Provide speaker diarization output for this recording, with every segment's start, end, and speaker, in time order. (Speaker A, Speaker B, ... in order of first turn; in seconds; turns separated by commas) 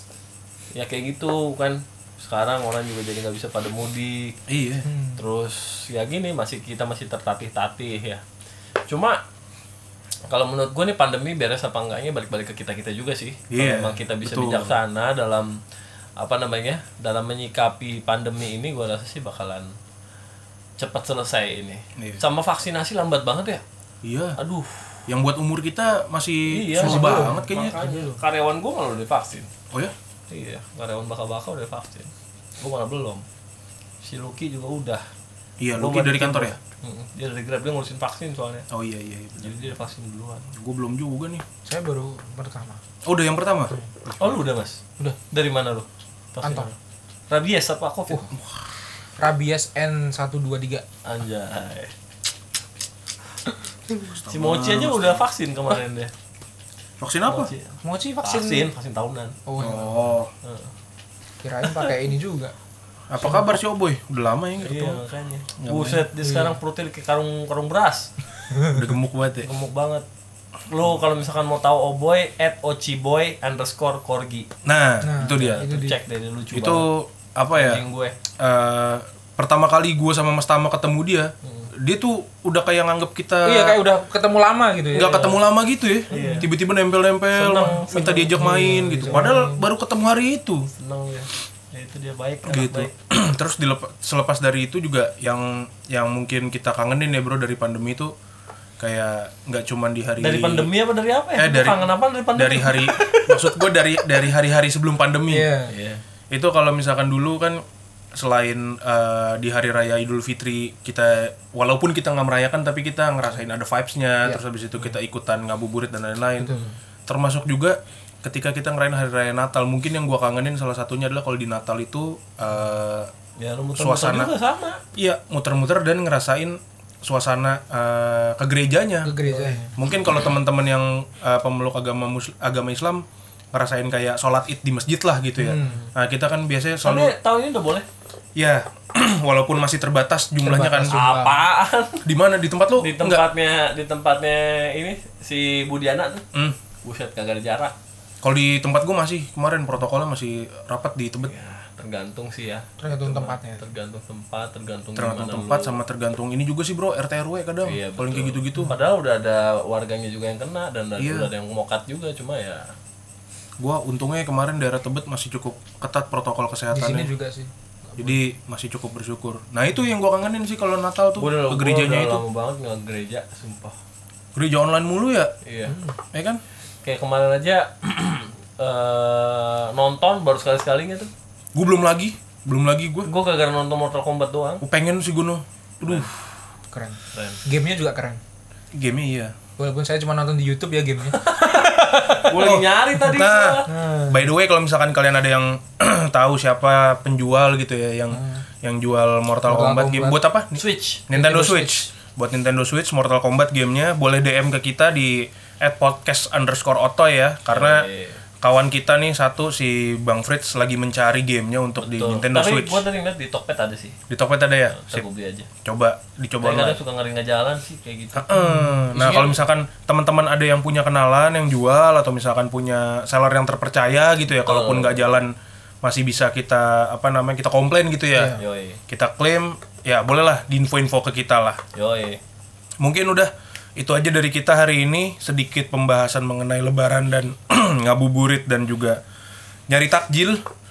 Speaker A: 0.7-4.4, Speaker B: 4.5-4.9, Speaker C: 4.8-5.2, Speaker A: 5.2-8.2, Speaker A: 8.9-9.2, Speaker A: 10.3-15.6, Speaker B: 13.5-14.8, Speaker A: 16.2-19.7, Speaker A: 20.8-23.6, Speaker B: 24.0-24.4, Speaker A: 24.4-25.1, Speaker B: 25.1-27.8, Speaker A: 26.5-29.5, Speaker C: 26.8-28.2, Speaker A: 30.3-33.2, Speaker A: 34.0-35.0, Speaker B: 35.6-36.6, Speaker A: 35.8-38.6, Speaker B: 38.7-39.7, Speaker A: 39.4-40.5, Speaker B: 40.5-41.4, Speaker C: 41.6-42.8, Speaker B: 43.0-44.4, Speaker A: 44.2-46.7, Speaker C: 46.4-46.7, Speaker A: 47.3-48.3, Speaker B: 48.3-48.6, Speaker C: 49.2-50.8, Speaker A: 51.0-51.9, Speaker A: 53.9-56.1, Speaker B: 54.1-55.2, Speaker B: 57.0-57.5, Speaker A: 57.2-59.4, Speaker C: 57.8-58.7, Speaker C: 59.5-60.1, Speaker B: 59.6-60.3, Speaker A: 60.4-60.7, Speaker C: 61.4-62.5, Speaker B: 63.1-65.0, Speaker A: 64.6-68.1, Speaker B: 65.6-66.0, Speaker C: 66.2-66.6, Speaker C: 68.5-68.8, Speaker B: 68.7-69.5, Speaker A: 69.4-70.0, Speaker A: 70.7-74.5, Speaker B: 74.6-75.6, Speaker C: 75.0-76.0, Speaker A: 75.2-76.9, Speaker B: 76.5-77.8, Speaker A: 77.5-78.2, Speaker B: 78.4-83.8, Speaker A: 81.4-81.7, Speaker C: 83.4-85.3, Speaker A: 84.9-85.4, Speaker B: 84.9-90.7, Speaker C: 86.1-86.5, Speaker A: 86.1-86.5, Speaker A: 87.3-88.5, Speaker C: 88.0-89.6, Speaker A: 90.8-92.9, Speaker B: 92.4-98.1, Speaker B: 98.8-100.7, Speaker A: 100.2-103.5, Speaker B: 101.3-105.5, Speaker C: 105.3-105.7, Speaker A: 105.7-106.0, Speaker B: 106.3-123.1, Speaker C: 116.4-116.7, Speaker A: 123.4-124.8, Speaker B: 123.8-124.3, Speaker B: 125.0-129.1, Speaker C: 129.0-129.7, Speaker A: 129.2-129.7, Speaker B: 129.8-137.1, Speaker C: 135.4-135.8, Speaker A: 136.8-137.8, Speaker B: 138.3-141.0, Speaker C: 140.4-141.4, Speaker A: 140.9-142.0, Speaker B: 142.0-143.2, Speaker A: 142.8-146.2, Speaker A: 146.8-147.7, Speaker B: 148.2-151.3, Speaker A: 151.2-155.8, Speaker C: 152.8-153.6, Speaker B: 154.9-158.8, Speaker A: 157.6-162.7, Speaker B: 161.0-161.3, Speaker B: 163.6-167.1, Speaker C: 166.7-167.5, Speaker B: 168.0-172.2, Speaker A: 171.2-173.8, Speaker B: 174.3-175.3, Speaker A: 175.4-175.7, Speaker C: 175.7-175.9, Speaker B: 176.1-176.4, Speaker A: 176.8-181.1, Speaker B: 181.5-183.1, Speaker A: 183.0-184.6, Speaker B: 184.6-186.1, Speaker C: 186.7-188.2, Speaker A: 187.1-187.4, Speaker B: 188.7-189.3, Speaker C: 189.6-192.5, Speaker A: 191.1-193.7, Speaker B: 192.3-207.9, Speaker C: 193.7-194.3, Speaker C: 198.1-198.4, Speaker C: 199.4-200.2, Speaker A: 200.5-201.0, Speaker C: 201.1-201.9, Speaker A: 207.5-208.2, Speaker B: 208.4-212.8, Speaker A: 211.8-214.0, Speaker B: 214.1-215.1, Speaker A: 214.7-215.5, Speaker B: 215.6-216.8, Speaker A: 216.4-218.3, Speaker B: 218.1-231.6, Speaker C: 218.3-219.3, Speaker A: 224.4-225.0, Speaker C: 228.1-228.4, Speaker A: 228.3-228.8, Speaker A: 231.7-232.2, Speaker B: 232.8-239.0, Speaker B: 239.7-240.4